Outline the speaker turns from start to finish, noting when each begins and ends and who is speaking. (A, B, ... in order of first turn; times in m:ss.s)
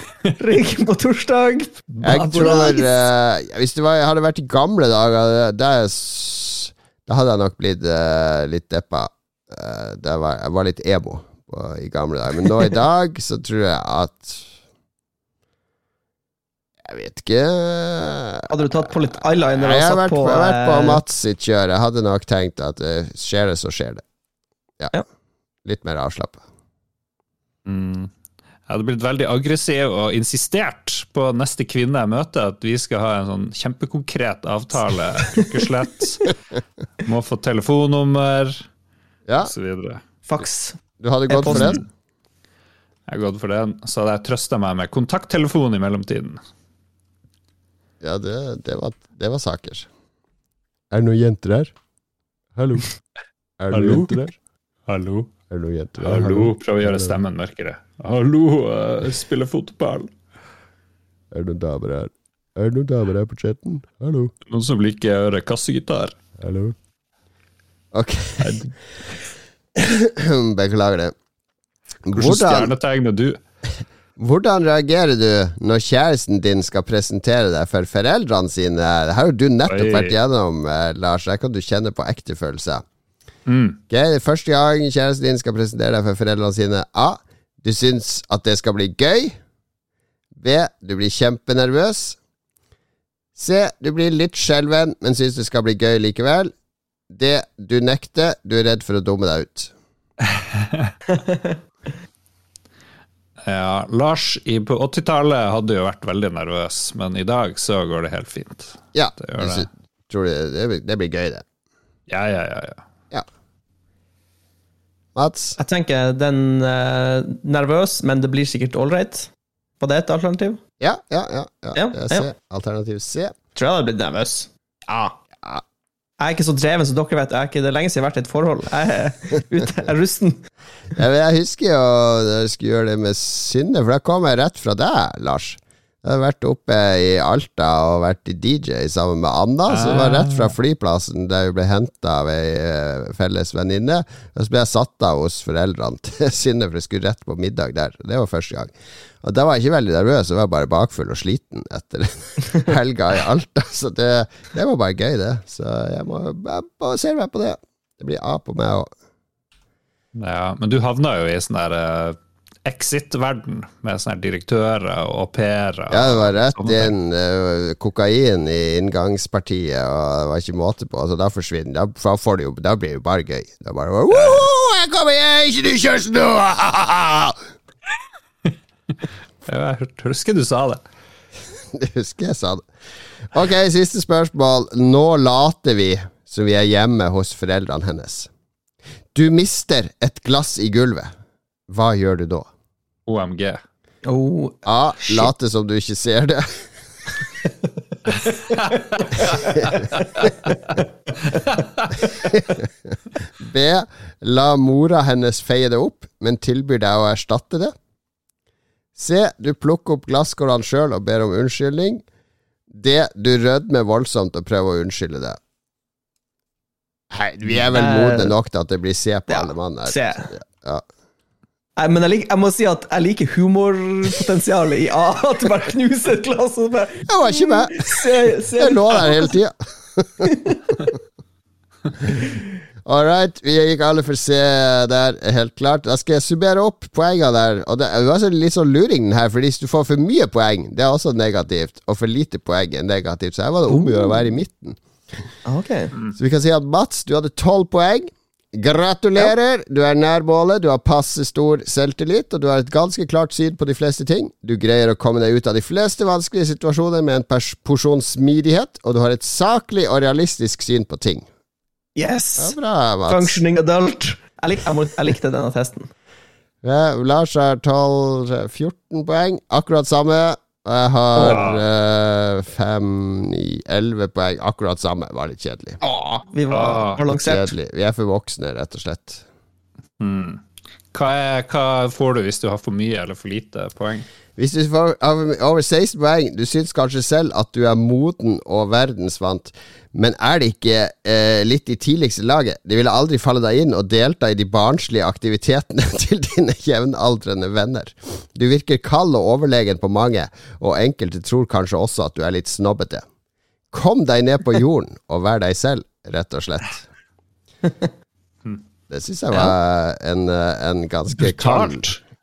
0:00.4-0:02.9 A
0:01.9-0:02.7 B
0:02.0-0:14.5 C
0:16.8-0:18.5 C
0:18.5-0:21.0 A
0:19.6-0:24.0 C
0:25.6-0:26.4 C
0:27.6-0:28.1 B
0:28.7-0:36.3 B
0:37.0-0:38.6 B
0:39.4-0:40.0 B
0:40.3-0:41.8 A
0:41.0-0:41.8 C
0:41.5-0:41.8 B
0:43.1-0:46.4 B
0:48.0-0:49.9 C
0:50.9-0:51.7 C
0:52.5-0:52.9 C
0:53.6-0:54.3 C
0:53.7-0:54.2 B
0:54.9-0:55.3 B
0:55.5-0:57.2 C
0:56.0-1:00.1 B
1:01.3-1:04.3 C
1:04.5-1:06.2 B
1:06.4-1:06.8 C
1:07.9-1:08.6 C
1:08.4-1:08.7 B
1:09.7-1:11.1 C
1:12.0-1:12.7 C
1:12.1-1:13.4 B
1:14.2-1:22.8 C
1:19.7-1:20.1 B
1:23.5-1:23.8 B
1:23.9-1:29.4 C
1:30.4-1:32.2 C
1:33.4-1:36.5 C
1:37.1-1:39.7 C
1:40.3-1:40.9 B
1:41.1-1:41.5 A
1:43.4-1:49.6 B
1:48.9-1:51.4 C
1:52.1-1:52.8 B
1:55.1-1:55.6 C
1:55.6-2:00.6 A
2:00.8-2:03.3 C
2:01.7-2:02.3 A
2:03.5-2:05.1 A
2:06.2-2:10.4 A
2:10.9-2:38.9 C
2:19.7-2:20.5 B
2:40.1-2:46.9 B
2:45.9-2:57.4 C
2:54.1-2:54.4 B
2:59.4-3:00.8 B
3:01.7-3:02.7 C
3:03.3-3:08.3 C
3:09.1-3:11.1 C
3:11.7-3:12.5 C
3:13.1-3:13.6 B
3:14.0-3:15.3 A
3:14.6-3:16.7 C
3:19.2-3:19.8 C
3:22.1-3:22.7 C
3:23.4-3:27.7 C
3:29.0-3:32.0 C
3:32.7-3:35.4 C
3:37.1-3:40.8 C
3:37.7-3:38.3 A
3:39.3-3:40.3 A
3:41.8-3:49.3 A
3:47.0-3:50.3 C
3:50.2-3:50.6 A
3:52.8-4:05.3 C
4:03.7-4:04.1 A
4:05.4-4:05.9 A
4:06.1-4:21.2 C
4:22.0-4:22.5 A
4:22.4-4:23.4 C
4:23.1-4:25.9 A
4:26.6-4:35.8 C
4:31.1-4:31.4 A
4:31.2-4:31.6 B
4:35.8-4:37.5 A
4:36.5-4:37.0 B
4:37.1-4:39.2 C
4:40.0-4:40.4 B
4:40.9-4:44.1 B
4:44.4-5:03.0 C
5:03.7-5:06.8 C
5:08.9-5:11.9 C
5:11.2-5:12.0 B